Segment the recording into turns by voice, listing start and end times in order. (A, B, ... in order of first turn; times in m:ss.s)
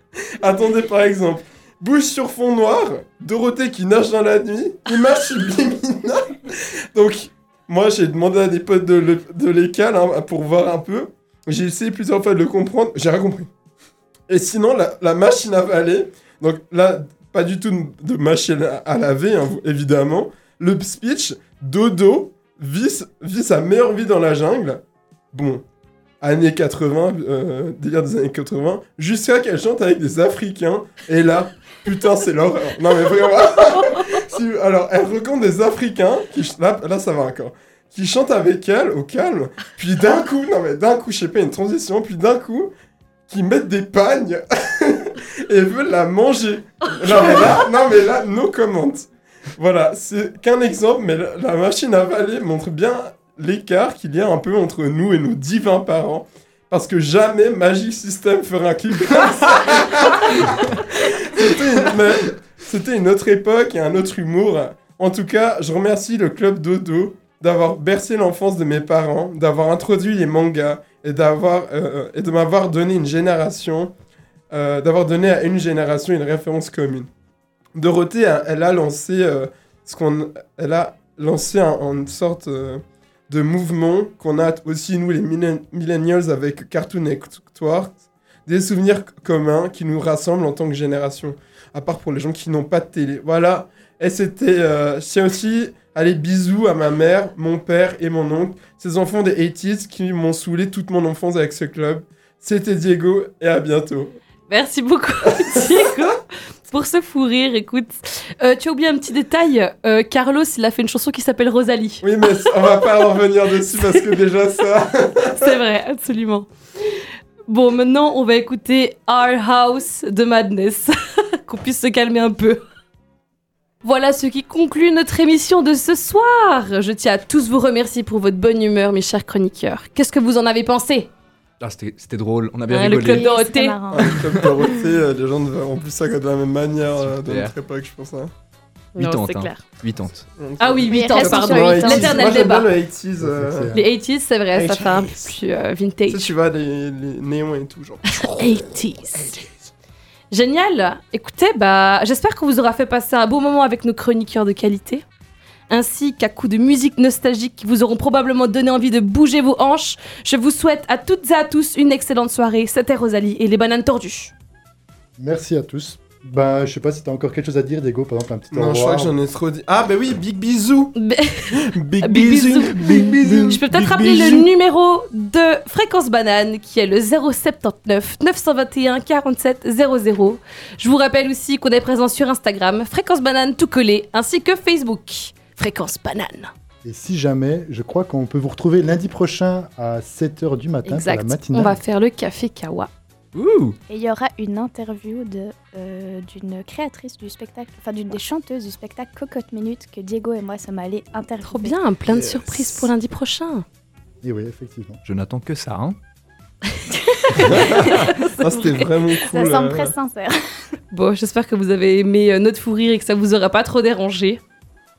0:00.4-0:13.5 A
0:14.3-0:25.6 A
0:26.2-0:42.7 A
0:43.3-1:13.9 A
1:14.5-1:17.1 A
1:17.7-1:44.2 A
1:44.5-1:52.9 B
1:52.0-1:55.6 A
1:53.7-1:54.2 B
1:55.3-1:56.5 B
1:57.5-2:02.6 B
2:03.8-2:11.1 B
2:11.6-2:13.2 C
2:12.7-2:14.2 B
2:13.1-2:14.4 D
2:13.9-2:18.3 A
2:14.2-2:14.4 C
2:17.0-2:17.5 C
2:18.9-2:19.6 B
2:19.0-2:20.3 C
2:20.4-2:23.7 A
2:20.6-2:22.7 B
2:20.9-2:22.4 D
2:23.2-2:23.8 E
2:23.7-2:26.2 B
2:24.5-2:25.3 A
2:26.1-2:28.6 A
2:28.1-2:29.4 B
2:29.2-2:29.5 A
2:30.3-2:35.0 B
2:35.7-2:44.3 B
2:45.2-2:49.2 E
2:48.5-2:50.9 A
2:51.0-3:06.5 B
2:51.5-2:54.4 A
3:06.8-3:11.8 E
3:10.9-3:12.9 B
3:13.3-3:13.8 C
3:13.9-3:21.8 D
3:21.4-3:23.6 B
3:22.0-3:22.9 A
3:24.2-3:25.0 E
3:25.0-3:26.0 C
3:26.7-3:29.2 B
3:27.4-3:29.9 A
3:29.3-3:30.4 D
3:30.9-3:34.4 B